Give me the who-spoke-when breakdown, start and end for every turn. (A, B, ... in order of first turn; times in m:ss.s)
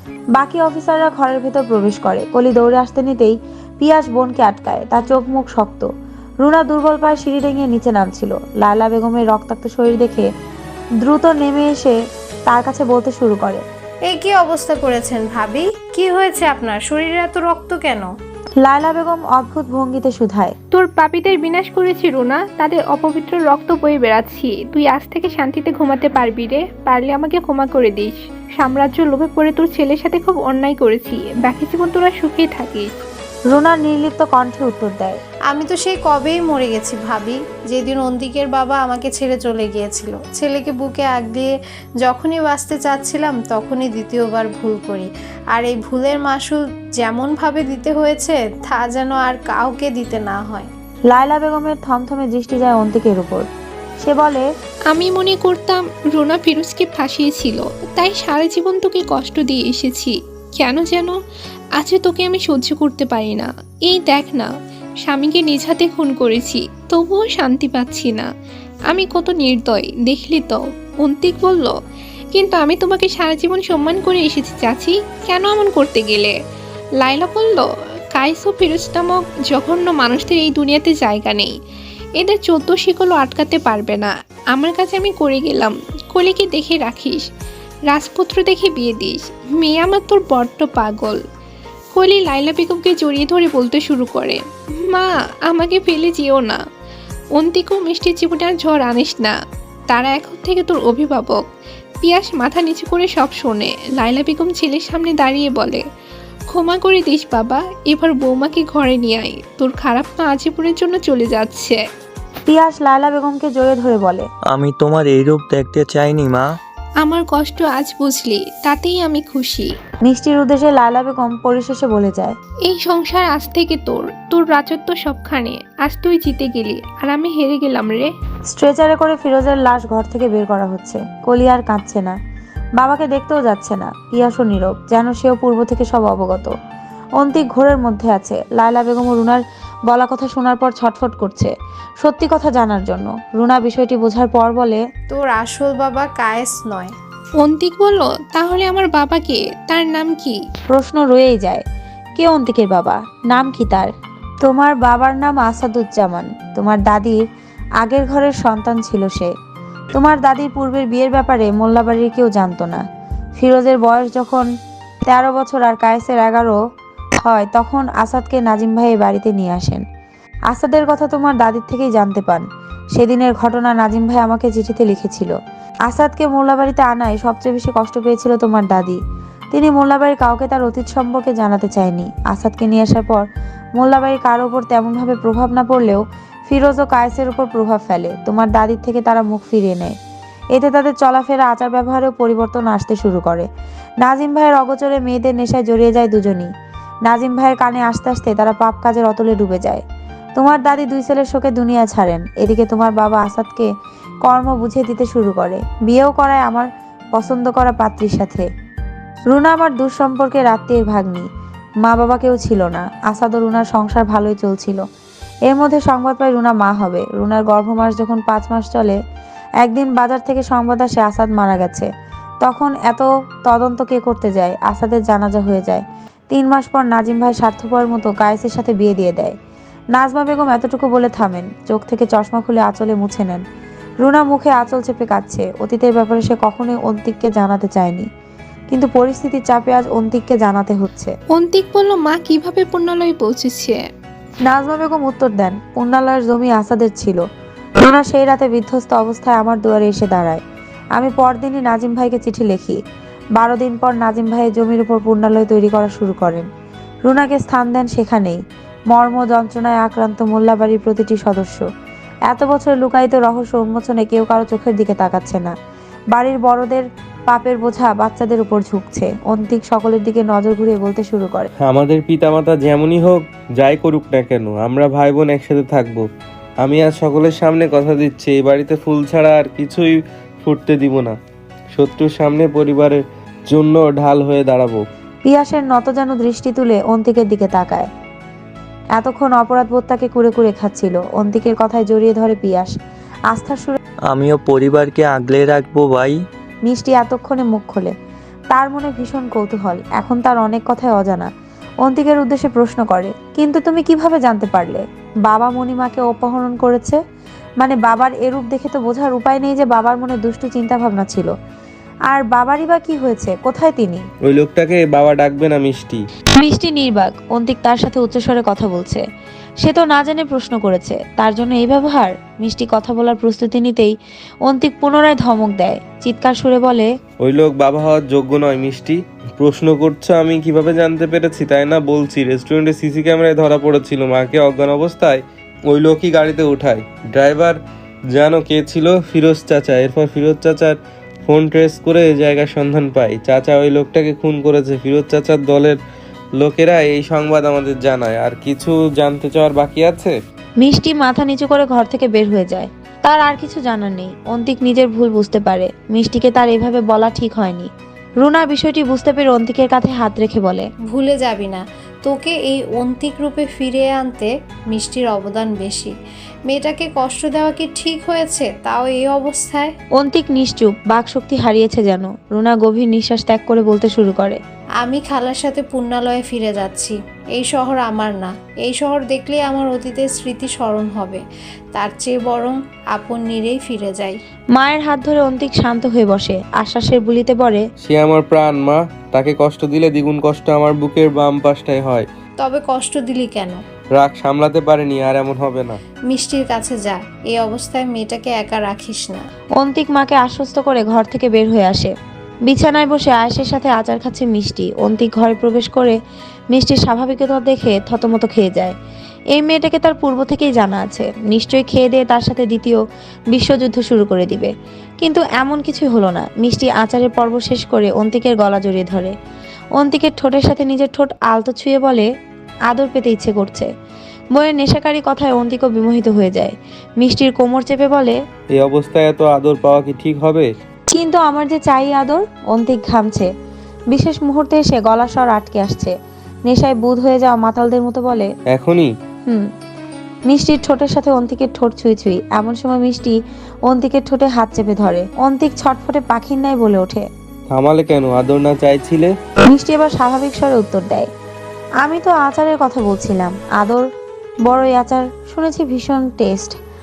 0:00.3-0:05.9 A
0:06.4-0:10.3 A
0:11.0-0:12.0 A
0:12.5-0:13.6 A
0:14.0-0:18.1 B
0:18.6-0:20.5 A
0:20.7-0:32.9 C
0:33.5-0:35.2 A
0:35.5-0:50.7 B
0:51.1-0:53.5 A
0:54.0-0:54.4 A
0:54.9-1:01.1 C
1:01.8-1:04.5 C
1:05.0-1:08.3 C
1:08.9-1:11.7 C
1:12.3-1:16.3 C
1:17.0-1:21.5 C
1:22.2-1:27.2 C
1:27.9-1:31.2 C
1:32.0-1:36.6 C
1:37.4-1:39.3 C
1:39.9-1:41.4 C
1:42.0-1:45.8 C
1:46.5-1:51.8 C
1:52.5-1:54.3 A
1:54.5-1:56.6 D
1:57.0-1:59.7 C
2:00.0-2:02.4 A
2:02.6-2:08.1 C
2:08.5-2:12.2 A
2:12.8-2:16.5 A
2:17.2-2:21.5 A
2:22.0-2:24.8 A
2:25.1-2:26.9 B
2:27.4-2:30.4 C
2:30.7-2:31.6 A
2:32.2-2:33.9 A
2:34.4-2:37.2 A
2:37.8-2:39.3 A
2:39.9-2:42.8 A
2:43.4-2:44.5 A
2:45.0-2:46.6 A
2:47.2-2:49.8 A
2:50.5-2:55.3 A
2:55.9-2:59.0 A
2:59.5-3:03.2 A
3:03.8-3:10.0 A
3:10.5-3:13.5 A
3:14.0-3:16.5 A
3:17.1-3:19.8 A
3:20.4-3:23.7 A
3:24.2-3:28.4 A
3:29.3-3:31.3 A
3:31.8-3:34.8 A
3:35.5-3:39.0 A
3:39.6-3:41.9 A
3:42.4-3:49.3 A
3:49.9-3:53.4 A
3:54.0-3:58.1 A
3:58.7-4:01.1 A
4:01.3-4:03.8 C
4:04.5-4:07.2 A
4:07.8-4:10.4 A
4:11.0-4:12.8 A
4:13.4-4:16.4 A
4:17.1-4:21.6 A
4:22.3-4:25.5 A
4:26.1-4:31.5 A
4:31.6-4:36.0 E
4:36.6-4:41.2 E
4:41.7-4:44.8 E
4:45.2-4:47.9 A
4:49.0-4:52.7 A
4:53.3-4:53.8 A
4:54.1-4:56.2 D
4:56.6-4:57.9 A
4:58.5-5:01.3 A
5:01.8-5:07.0 A
5:07.6-5:11.3 A
5:12.1-5:14.0 A
5:14.3-5:16.0 E
5:16.4-5:19.0 A
5:19.6-5:23.9 A
5:24.5-5:26.9 A
5:27.2-5:37.6 E
5:38.1-5:45.8 E
5:46.4-5:50.2 E
5:50.6-5:57.7 A
5:58.2-6:00.7 A
6:00.8-6:05.9 B
6:06.5-6:09.7 B
6:10.0-6:14.4 A
6:14.8-6:24.2 B
6:24.6-6:27.6 A
6:27.8-6:32.1 E
6:32.4-6:33.6 B
6:33.9-6:35.8 E
6:36.1-6:39.2 B
6:39.6-6:41.9 A
6:42.5-6:46.0 A
6:46.5-6:48.8 A
6:49.3-6:52.8 A
6:53.3-6:59.1 A
6:59.8-7:02.1 A
7:02.7-7:03.7 A
7:04.3-7:08.2 A
7:08.5-7:10.5 E
7:10.9-7:13.3 A
7:13.9-7:15.9 A
7:16.5-7:18.3 A
7:18.5-7:18.9 E
7:20.3-7:23.2 A
7:23.7-7:27.1 A
7:27.5-7:29.1 E
7:29.5-7:31.1 A
7:31.8-7:33.8 A
7:34.4-7:36.6 A